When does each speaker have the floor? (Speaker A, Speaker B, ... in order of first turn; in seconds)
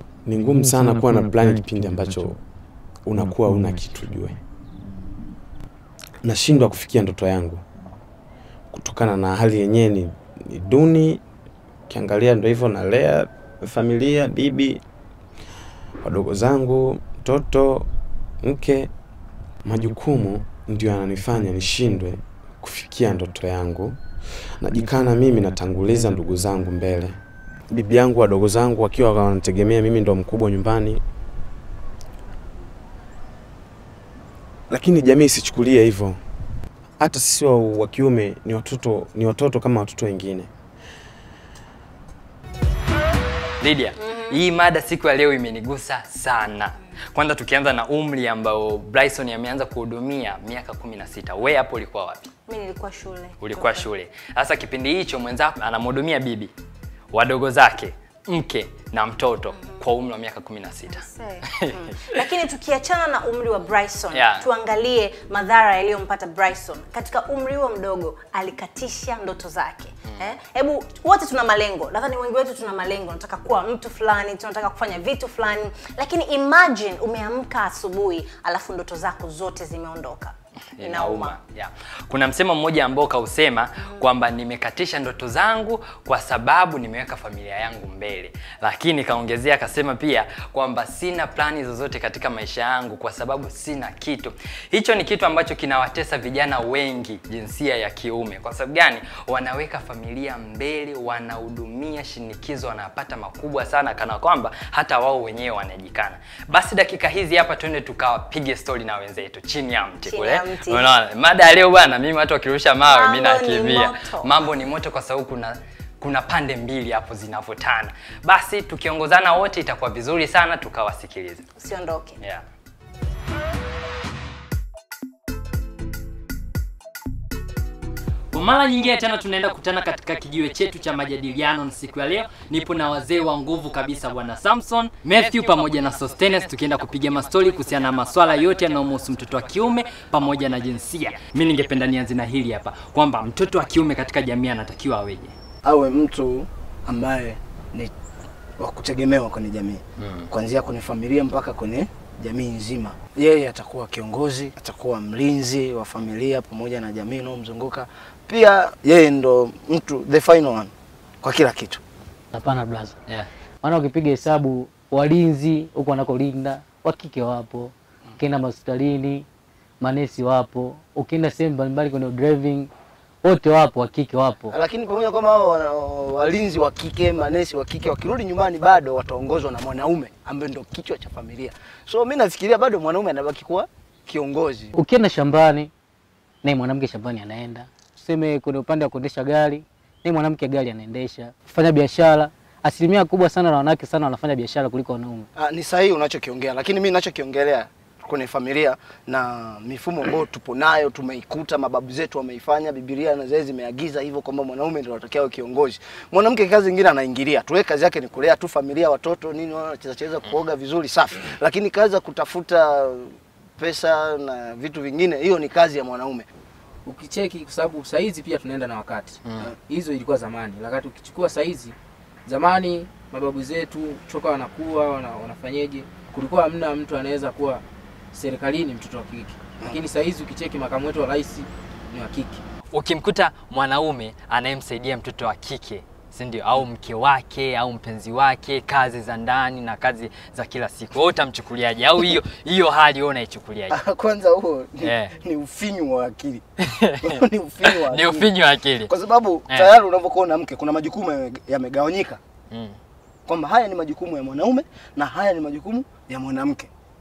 Speaker A: 0.3-2.4, 3.0-4.4, 6.2-7.6, 8.7-11.2, 11.9-14.8, 16.0-17.9, 18.4-18.9, 19.6-24.0, 24.6-27.2, 27.7-31.0, 34.7-36.2, 37.0-40.5
Speaker B: 43.6-52.3, 53.4-56.5, 57.1-62.2, 64.1-64.5, 80.8-121.5, 128.3-145.3, 150.0-150.3, 232.7-243.8, 244.8-245.2, 246.7-248.9, 252.5-252.8
Speaker C: 44.0-44.3, 52.5-53.9, 59.5-59.8, 60.9-81.4, 83.8-84.0, 110.1-110.9, 112.8-114.5, 121.6-122.2
Speaker D: 145.7-147.9, 148.6-160.7, 161.2-161.8, 174.5-184.7, 195.4-216.3, 243.7-246.4, 247.0-248.2, 248.9-252.2, 253.3-256.7
Speaker E: 162.3-163.0, 163.6-169.3, 169.8-172.7, 173.2-174.6, 184.7-185.7, 186.4-195.3
Speaker F: 216.9-221.7, 222.3-227.6, 228.1-232.4